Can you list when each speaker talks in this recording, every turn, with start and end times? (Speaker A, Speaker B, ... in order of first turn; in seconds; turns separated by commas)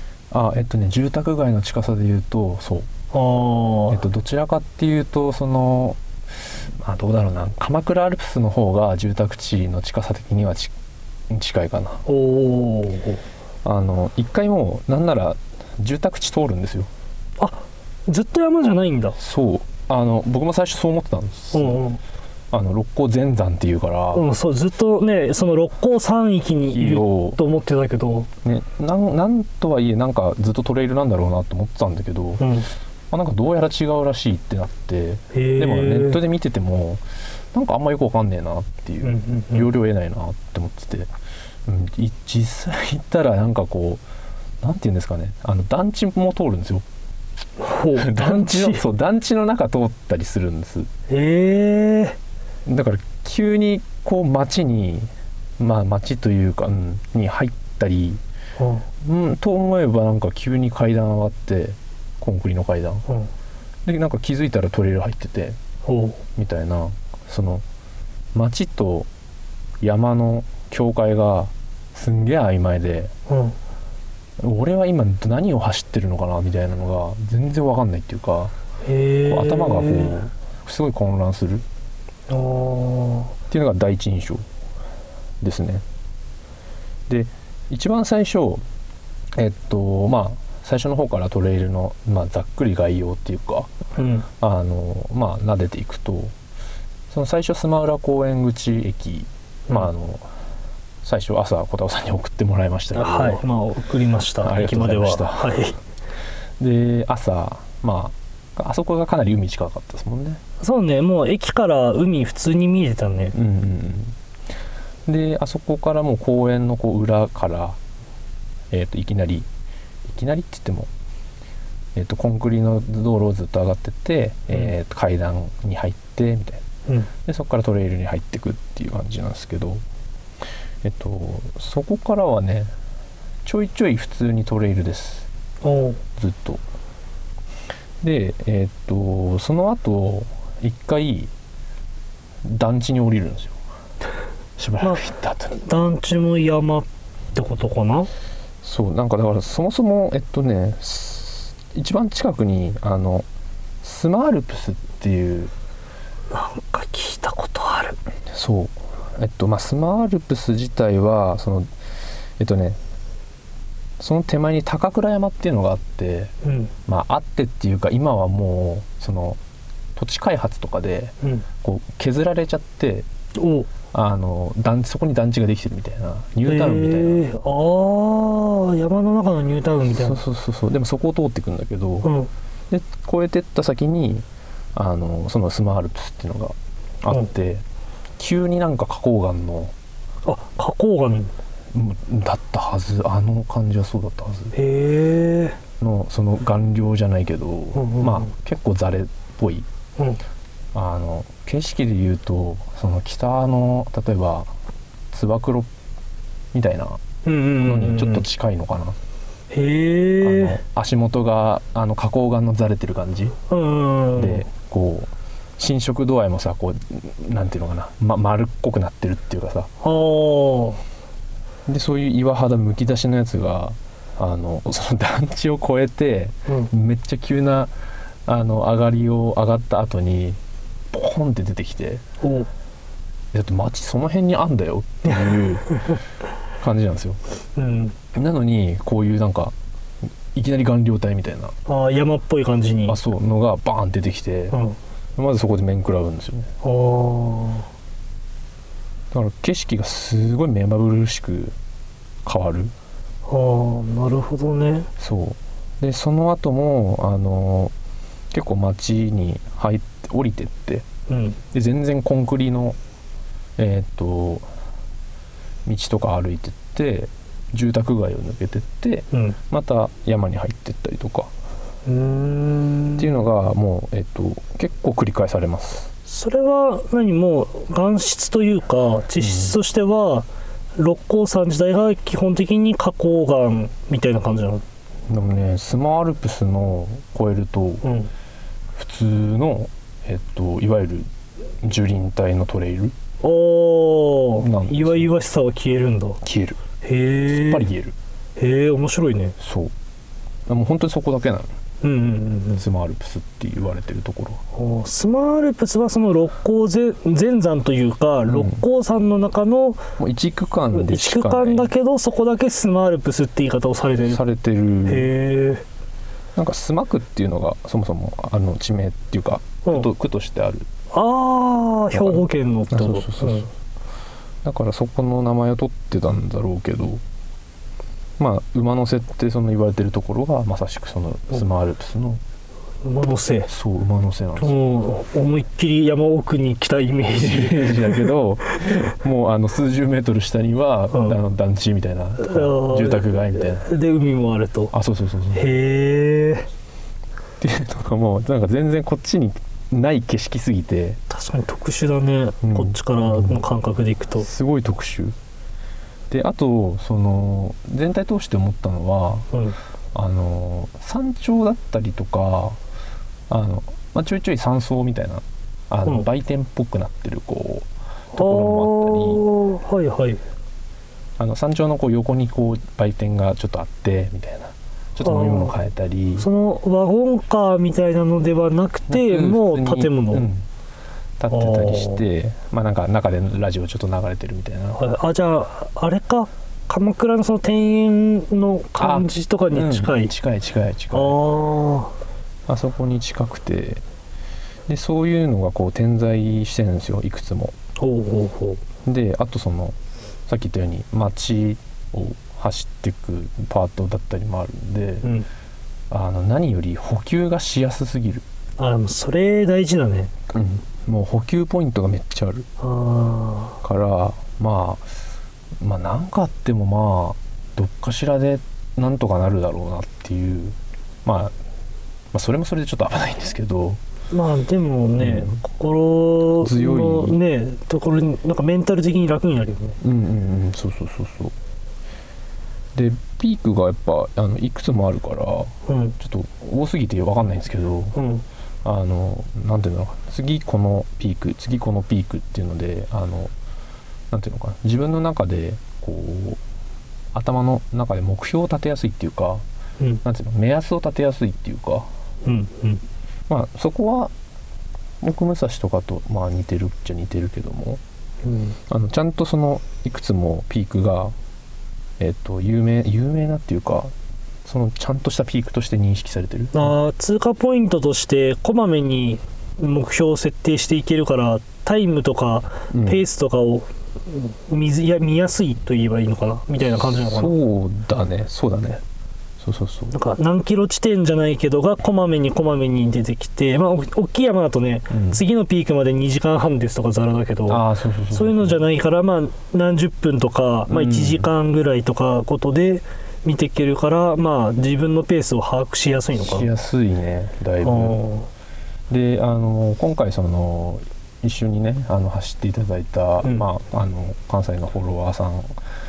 Speaker A: 0.3-2.9, Speaker B: 3.1-4.0, Speaker A: 3.9-6.0, Speaker A: 6.8-10.7, Speaker A: 11.3-12.0, Speaker B: 12.1-13.2, Speaker A: 13.7-16.9, Speaker B: 17.4-19.2, Speaker A: 19.2-21.8, Speaker B: 21.5-22.0, Speaker A: 22.5-24.2, Speaker B: 24.1-28.3, Speaker A: 26.7-27.4, Speaker A: 28.4-32.5, Speaker B: 32.4-32.7, Speaker A: 33.1-41.1, Speaker B: 35.3-36.2, Speaker B: 39.0-39.7, Speaker A: 41.7-44.0, Speaker A: 44.6-46.8, Speaker B: 47.6-48.8, Speaker A: 48.0-50.9, Speaker B: 51.1-52.2, Speaker A: 52.7-58.2, Speaker B: 58.6-58.9, Speaker A: 59.0-63.0, Speaker A: 63.9-65.6, Speaker B: 65.8-66.2, Speaker A: 66.4-67.6, Speaker A: 68.3-69.1, Speaker A: 69.8-73.1, Speaker B: 73.3-73.6, Speaker A: 74.4-78.5, Speaker B: 78.8-80.2, Speaker A: 79.3-81.7, Speaker B: 82.3-83.3, Speaker A: 83.5-84.5, Speaker A: 85.4-85.8, Speaker A: 87.1-88.6, Speaker A: 89.3-93.7, Speaker B: 94.0-94.3, Speaker A: 94.4-96.3, Speaker A: 97.1-100.3, Speaker A: 101.0-103.4, Speaker B: 103.0-105.8, Speaker A: 104.4-105.6, Speaker A: 106.6-110.4, Speaker B: 110.6-113.3, Speaker A: 113.3-114.2, Speaker A: 115.1-117.8, Speaker A: 118.7-119.5, Speaker A: 120.1-120.9, Speaker A: 122.0-126.6, Speaker A: 127.2-129.8, Speaker A: 130.8-132.7, Speaker A: 133.4-135.3, Speaker B: 135.6-136.0, Speaker A: 136.2-136.6, Speaker A: 138.0-141.3, Speaker A: 142.4-143.6, Speaker A: 144.6-145.6, Speaker B: 145.6-148.1, Speaker A: 148.6-153.3, Speaker A: 153.8-155.5, Speaker B: 156.3-158.0, Speaker A: 158.3-161.7, Speaker A: 162.4-162.8, Speaker A: 164.0-166.3, Speaker B: 166.4-166.7, Speaker A: 166.9-169.4, Speaker A: 170.0-173.1, Speaker B: 173.3-173.7, Speaker A: 173.9-177.2, Speaker B: 176.4-180.2, Speaker A: 179.9-182.1, Speaker B: 182.0-182.3, Speaker A: 182.7-187.7, Speaker A: 188.2-189.7, Speaker B: 190.2-191.3, Speaker A: 191.7-194.6, Speaker B: 194.5-195.6, Speaker A: 195.8-199.7, Speaker B: 197.8-198.3, Speaker A: 200.7-204.5, Speaker A: 205.1-205.7, Speaker A: 206.5-207.0, Speaker B: 207.2-208.2, Speaker A: 207.6-209.0, Speaker B: 209.5-210.6, Speaker A: 210.2-213.3, Speaker B: 213.5-214.5, Speaker A: 214.2-219.7, Speaker B: 219.8-220.8, Speaker A: 221.7-227.7, Speaker A: 228.3-230.4, Speaker A: 230.9-232.0, Speaker B: 232.2-232.5, Speaker A: 233.3-235.8, Speaker A: 236.6-237.2, Speaker B: 237.6-238.0, Speaker A: 238.1-239.6, Speaker A: 240.3-241.6, Speaker B: 241.7-243.0, Speaker A: 242.9-244.6, Speaker B: 244.5-244.8, Speaker A: 245.2-246.5, Speaker B: 246.6-247.7, Speaker A: 249.1-251.6, Speaker A: 252.2-252.7, Speaker B: 253.3-254.9, Speaker A: 255.0-257.7, Speaker A: 258.3-260.9, Speaker B: 261.1-261.4, Speaker A: 261.5-262.8, Speaker A: 263.6-264.5, Speaker A: 265.7-271.3, Speaker B: 269.1-269.4, Speaker B: 271.9-273.2, Speaker A: 273.0-275.9, Speaker B: 276.1-284.6, Speaker A: 279.2-279.6, Speaker A: 285.1-287.9, Speaker B: 287.8-288.1, Speaker A: 288.8-291.1, Speaker A: 291.6-292.9, Speaker B: 293.2-296.2, Speaker A: 294.4-295.1, Speaker A: 296.2-296.6, Speaker B: 296.8-297.7, Speaker A: 297.3-297.9, Speaker B: 298.4-299.4, Speaker A: 299.4-299.7, Speaker A: 300.5-301.5, Speaker B: 301.8-302.6, Speaker A: 302.6-304.4, Speaker B: 304.5-309.8, Speaker A: 308.3-308.6, Speaker A: 310.0-311.7, Speaker B: 310.7-314.2, Speaker A: 314.0-315.1, Speaker B: 314.9-315.6, Speaker A: 316.4-320.7, Speaker B: 320.9-323.5, Speaker A: 321.9-323.5, Speaker A: 324.4-327.0, Speaker A: 328.2-332.2, Speaker B: 332.8-333.5, Speaker A: 333.5-334.6, Speaker B: 334.4-338.1, Speaker A: 337.1-343.7, Speaker B: 340.9-341.2, Speaker B: 342.2-344.7, Speaker A: 344.7-345.5, Speaker B: 345.3-346.5, Speaker A: 347.4-351.0, Speaker B: 351.1-354.3, Speaker A: 352.4-353.4, Speaker A: 354.2-355.2, Speaker A: 356.1-359.3, Speaker B: 359.3-359.6, Speaker A: 359.9-362.6, Speaker A: 363.3-369.3, Speaker B: 368.1-370.2, Speaker A: 371.2-376.3, Speaker B: 375.0-375.6, Speaker B: 376.2-380.3, Speaker A: 378.9-380.5, Speaker A: 381.2-384.8, Speaker B: 381.3-382.0, Speaker B: 384.8-390.1, Speaker A: 388.8-391.2, Speaker B: 390.9-391.9, Speaker A: 392.5-393.8, Speaker A: 394.7-397.6, Speaker B: 397.8-398.6, Speaker A: 398.9-399.8, Speaker A: 400.3-405.1, Speaker B: 405.0-405.3, Speaker A: 405.9-408.2, Speaker B: 408.6-410.1, Speaker A: 410.3-412.5, Speaker B: 412.6-413.6, Speaker A: 413.6-415.0, Speaker A: 415.6-421.4, Speaker A: 422.1-423.8, Speaker B: 424.1-429.8, Speaker A: 425.0-425.4, Speaker A: 426.4-427.2, Speaker A: 429.8-431.3, Speaker A: 432.8-438.0, Speaker B: 435.7-436.0, Speaker B: 437.9-438.2, Speaker A: 438.6-443.3, Speaker A: 444.1-446.4, Speaker A: 447.1-449.4, Speaker A: 450.0-451.9, Speaker B: 452.2-452.8, Speaker A: 453.3-454.1, Speaker A: 455.0-457.8, Speaker B: 458.2-458.6, Speaker A: 458.7-461.1, Speaker A: 462.0-463.9, Speaker A: 464.4-466.7, Speaker B: 466.5-477.4, Speaker A: 472.7-473.0, Speaker A: 477.0-478.8, Speaker A: 479.4-479.9, Speaker B: 479.9-496.5, Speaker A: 484.9-485.2, Speaker A: 487.5-488.6, Speaker A: 490.7-491.3, Speaker A: 496.1-498.0, Speaker B: 497.6-498.3, Speaker A: 498.9-505.5